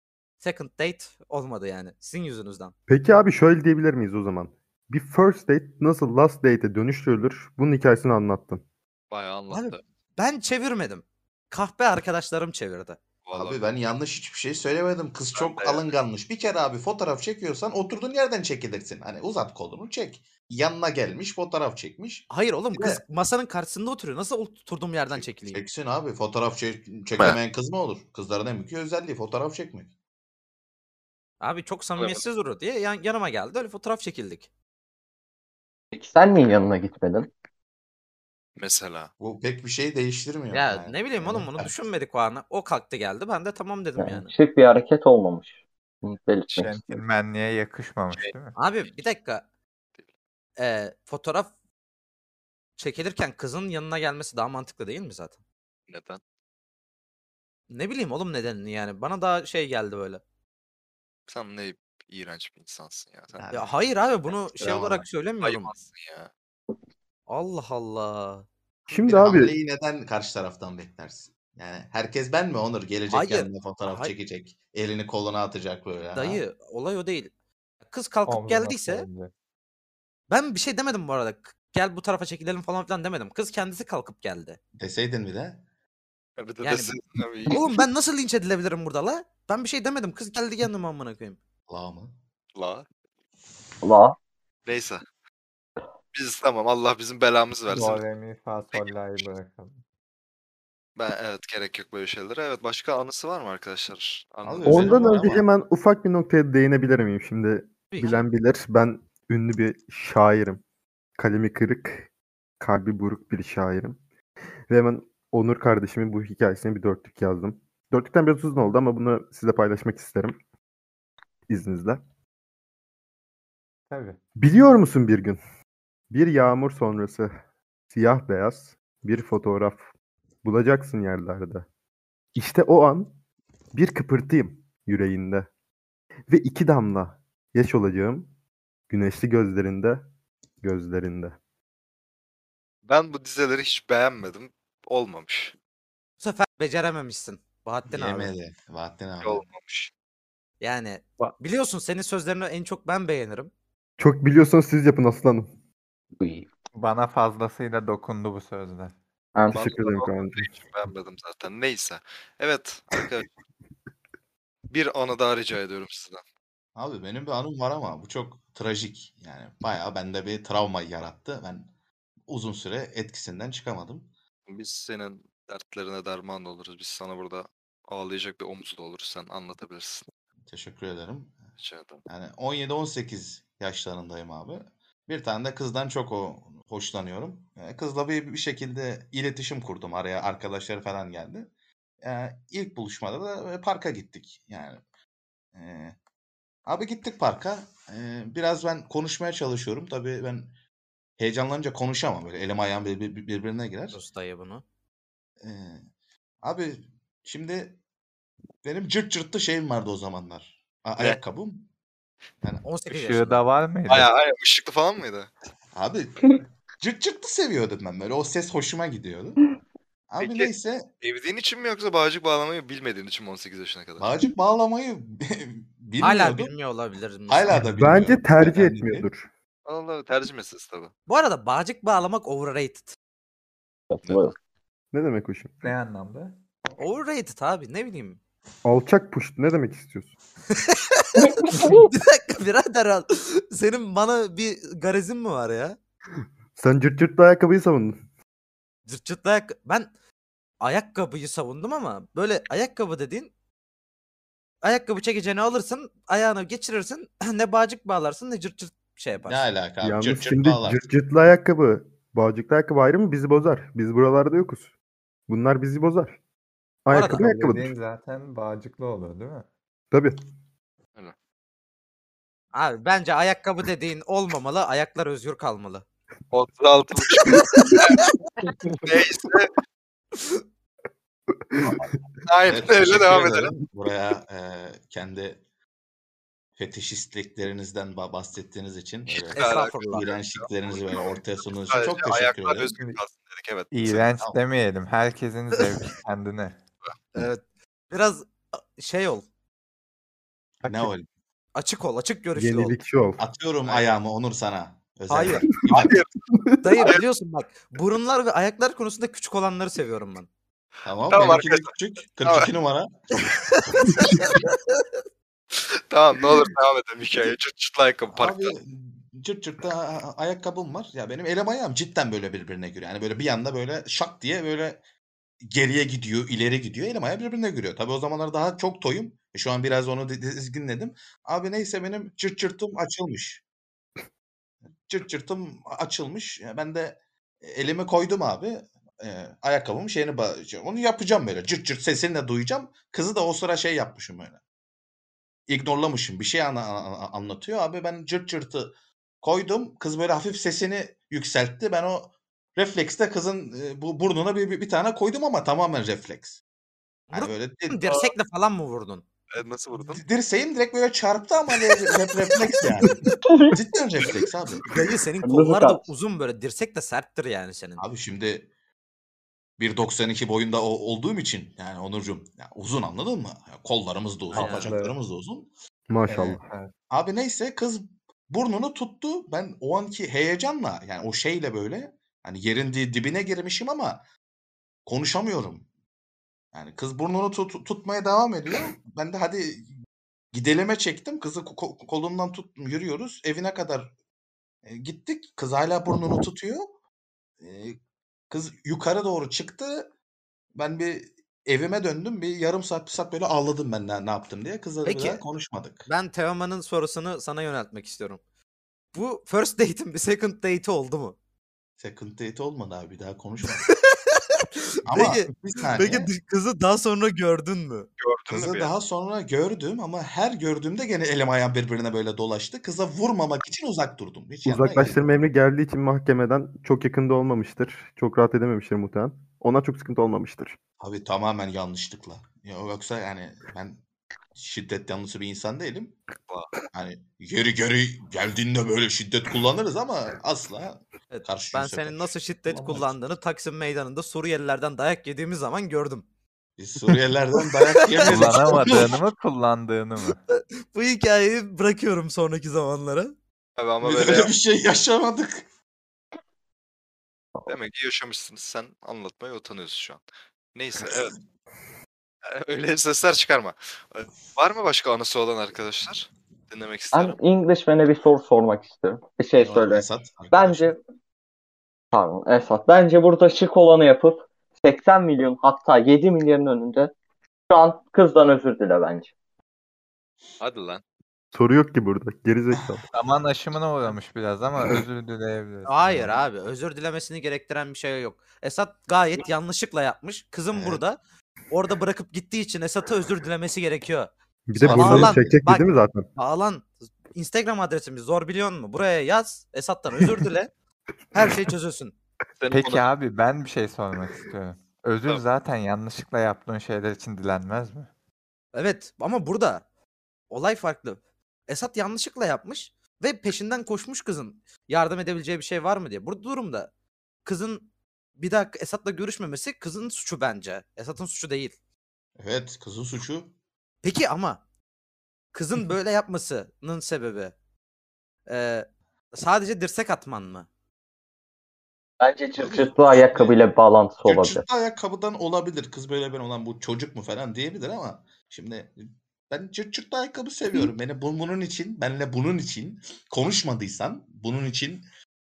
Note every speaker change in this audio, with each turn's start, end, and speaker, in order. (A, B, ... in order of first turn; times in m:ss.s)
0:00.4-0:02.7 A
0:02.9-0:08.6 B
0:09.1-0:09.8 C
0:09.5-0:13.0 A
0:13.2-0:13.6 C
0:13.4-0:23.0 D
0:15.4-0:15.9 C
0:22.3-0:25.6 A
0:25.1-0:29.9 D
0:31.4-0:34.5 A
0:32.0-0:32.2 C
0:35.9-0:37.3 E
0:38.6-0:39.1 C
0:39.2-0:41.7 D
0:40.5-0:44.3 A
0:44.0-0:46.8 E
0:46.6-0:48.6 F
0:48.6-0:49.4 A
0:50.6-0:51.5 A
0:52.8-0:55.4 A
0:55.9-0:56.2 C
0:57.7-1:00.2 A
1:01.3-1:03.4 C
1:03.4-1:03.7 D
1:03.5-1:05.7 A
1:04.6-1:05.0 D
1:05.4-1:06.3 C
1:07.3-1:08.4 A
1:08.9-1:09.6 B
1:09.0-1:16.4 D
1:13.1-1:14.1 A
1:16.1-1:17.3 A
1:17.9-1:19.1 A
1:18.3-1:19.3 F
1:20.3-1:24.6 A
1:24.8-1:25.6 D
1:26.4-1:27.6 C
1:26.6-1:27.0 A
1:27.5-1:31.4 A
1:31.7-1:32.1 D
1:32.6-1:32.8 C
1:33.8-1:34.2 E
1:34.7-1:35.0 C
1:36.1-1:38.0 C
1:37.7-1:39.8 F
1:41.0-1:45.2 C
1:44.4-1:45.4 D
1:44.7-1:50.6 B
1:47.9-1:48.2 A
1:51.2-1:52.1 B
1:52.6-1:54.0 B
1:54.7-2:00.4 B
2:01.5-2:02.0 B
2:03.9-2:04.2 F
2:04.4-2:05.4 B
2:06.1-2:07.3 B
2:07.9-2:09.9 B
2:10.4-2:11.7 B
2:12.3-2:13.1 B
2:13.7-2:15.5 B
2:16.3-2:18.3 B
2:18.9-2:20.0 B
2:20.6-2:21.4 B
2:22.8-2:25.5 C
2:26.2-2:28.3 A
2:27.9-2:29.4 D
2:29.2-2:29.9 C
2:30.6-2:33.5 A
2:34.0-2:35.5 B
2:36.2-2:36.5 E
2:36.8-2:38.9 F
2:39.5-2:40.5 B
2:39.5-2:43.3 C
2:44.7-2:46.2 C
2:46.8-2:51.7 D
2:52.3-2:54.1 D
2:54.5-3:00.1 C
3:00.5-3:01.4 D
3:01.6-3:02.0 C
3:02.1-3:11.5 D
3:12.0-3:14.8 D
3:15.6-3:16.0 D
3:16.7-3:20.5 D
3:21.2-3:24.0 D
3:23.9-3:24.6 A
3:25.4-3:25.8 D
3:26.4-3:27.8 D
3:28.6-3:31.7 D
3:32.6-3:33.4 A
3:32.9-3:34.1 F
3:33.9-3:35.3 C
3:35.7-3:39.4 D
3:40.1-3:40.9 D
3:40.2-3:40.5 C
3:41.0-3:44.1 C
3:44.0-3:46.5 D
3:46.0-3:47.5 A
3:47.3-3:49.1 D
3:47.8-3:49.3 B
3:49.7-3:50.9 C
3:51.1-3:52.9 A
3:53.9-3:54.3 E
3:54.0-3:54.3 C
3:54.9-3:55.8 B
3:55.6-3:56.3 F
3:56.8-3:58.2 A
3:58.6-4:00.1 B
4:00.5-4:05.8 A
4:01.5-4:01.8 E
4:06.6-4:08.0 B
4:08.9-4:09.9 A
4:10.6-4:13.3 A
4:14.6-4:19.4 A
4:19.3-4:20.9 D
4:19.8-4:24.7 B
4:25.3-4:26.2 B
4:26.8-4:27.7 B
4:26.9-4:27.2 A
4:27.1-4:29.4 F
4:29.9-4:30.2 B
4:32.5-4:35.8 A
4:36.3-4:37.9 C
4:37.3-4:38.0 A
4:38.8-4:39.5 C
4:41.4-4:41.8 B
4:42.3-4:43.6 C
4:42.5-4:45.4 D
4:46.6-4:52.7 D
4:49.1-4:54.1 C
4:49.3-4:50.1 A
4:53.7-4:56.6 F
4:57.2-4:59.2 A
5:00.6-5:01.1 D
5:00.6-5:00.9 F
5:01.6-5:02.8 A
5:02.3-5:03.2 B
5:03.2-5:06.0 D
5:05.1-5:05.5 A
5:05.8-5:06.1 C
5:06.3-5:06.8 B
5:06.6-5:10.3 A
5:10.8-5:13.0 D
5:11.1-5:11.7 C
5:12.2-5:12.5 C
5:13.5-5:14.8 A
5:15.6-5:18.5 C
5:18.1-5:24.8 D
5:25.4-5:33.4 D
5:34.9-5:44.4 D
5:45.5-5:56.4 D
5:57.1-5:59.0 A
5:57.1-5:57.9 D
5:59.3-6:00.0 C
5:59.8-6:04.7 D
6:03.2-6:03.6 E
6:04.7-6:07.8 A
6:05.2-6:05.8 E
6:07.8-6:08.5 D
6:09.6-6:15.5 D
6:14.3-6:14.7 A
6:14.3-6:15.0 F
6:15.9-6:16.4 B
6:16.1-6:16.7 F
6:16.9-6:24.0 D
6:24.8-6:25.7 D
6:26.5-6:29.7 D
6:30.3-6:33.9 D
6:34.6-6:36.7 D
6:37.4-6:37.8 D
6:38.3-6:39.9 D
6:40.6-6:45.9 D
6:44.8-6:45.2 A
6:45.9-6:48.2 A
6:48.9-6:51.2 A
6:51.8-6:53.6 D
6:53.5-6:54.2 A
6:54.8-6:56.1 D
6:54.9-6:57.9 A
6:58.0-6:58.7 C
6:58.3-7:05.0 D
7:04.4-7:10.6 B
7:10.8-7:13.8 D
7:14.4-7:16.0 D
7:16.7-7:22.9 D
7:21.1-7:26.0 A
7:26.6-7:29.0 D
7:27.8-7:28.9 A
7:28.1-7:30.2 F
7:30.7-7:33.1 A
7:33.6-7:34.3 C
7:33.8-7:35.4 D
7:37.5-7:40.0 C
7:40.6-7:41.2 C
7:42.3-7:47.2 C
7:46.9-7:50.8 E
7:49.4-7:50.7 D
7:51.9-7:56.9 E
7:57.5-7:59.1 E
8:00.4-8:00.8 C
8:01.3-8:02.8 B
8:02.9-8:06.2 F
8:05.7-8:11.0 A
8:10.5-8:10.8 D
8:11.5-8:20.5 A
8:14.5-8:16.1 B
8:14.6-8:15.4 D
8:21.1-8:21.9 A
8:22.4-8:22.9 C
8:22.5-8:27.9 F
8:28.6-8:29.6 A
8:30.3-8:36.7 A
8:37.2-8:37.7 A
8:38.2-8:41.5 A
8:42.2-8:43.3 D
8:43.8-8:44.4 A
8:45.3-8:47.3 A
8:48.3-8:50.5 A
8:52.0-8:54.4 E
8:52.4-8:53.4 D
8:54.0-8:58.8 D
8:59.3-9:04.8 D